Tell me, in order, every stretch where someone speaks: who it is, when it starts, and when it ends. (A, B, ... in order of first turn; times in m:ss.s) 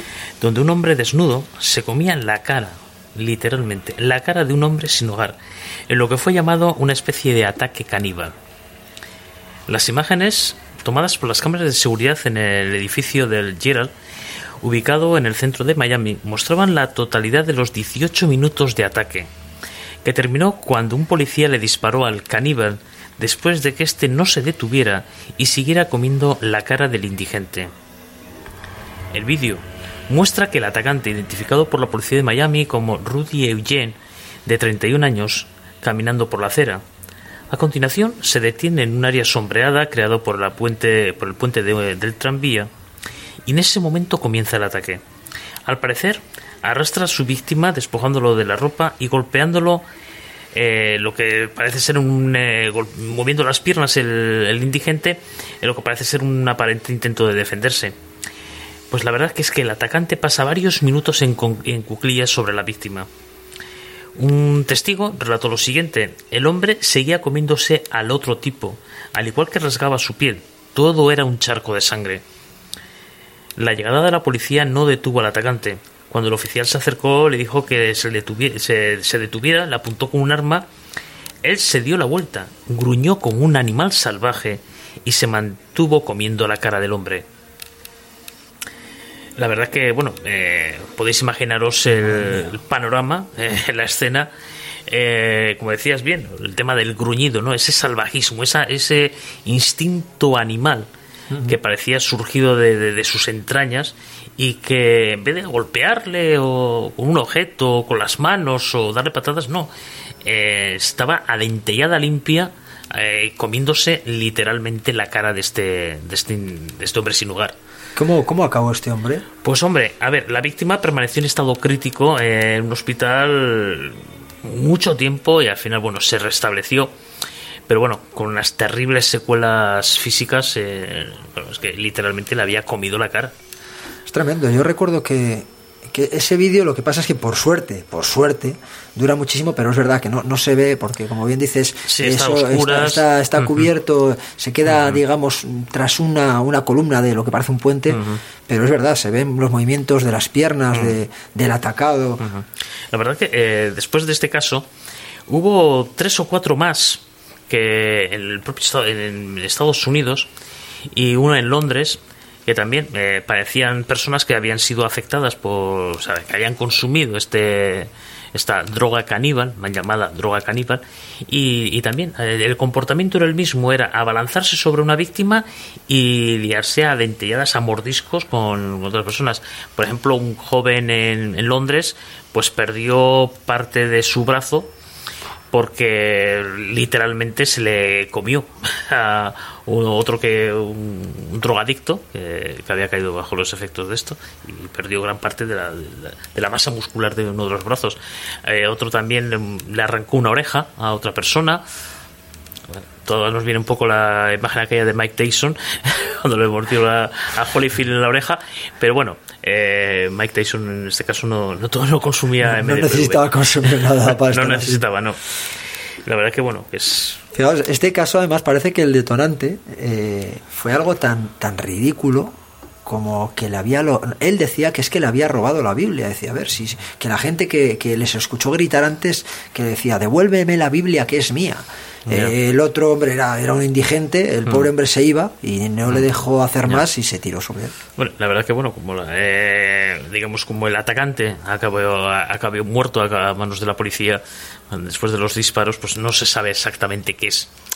0:00.4-0:05.4 A
0:05.9-0:08.4 A
0:09.7-0:13.9 A
0:14.6-0:19.3 A
0:20.0-0:27.7 A
0:29.1-0:36.8 A
0:37.5-0:42.7 A
0:43.5-0:45.0 A
0:45.6-0:49.8 A
0:50.5-0:57.9 A
0:58.9-1:03.1 A
1:04.2-1:12.2 A
1:13.6-1:20.6 A
1:21.4-1:27.2 A
1:29.4-1:34.3 A
1:34.9-1:40.9 A
1:41.3-1:41.6 B
1:41.4-1:49.7 A
1:50.2-1:57.5 A
1:58.0-1:59.2 B
1:59.4-2:06.9 A
2:07.7-2:13.3 A
2:14.1-2:32.2 B
2:21.9-2:23.7 A
2:24.7-2:25.0 A
2:27.9-2:28.2 A
2:32.2-2:34.7 A
2:35.3-2:40.3 A
2:40.9-3:04.7 A
3:05.5-3:21.6 A
3:22.7-3:35.2 A
3:32.4-3:34.8 B
3:36.0-3:37.2 A
3:37.3-3:42.3 B
3:42.8-3:57.7 B
3:52.1-3:52.3 A
3:58.0-4:07.5 A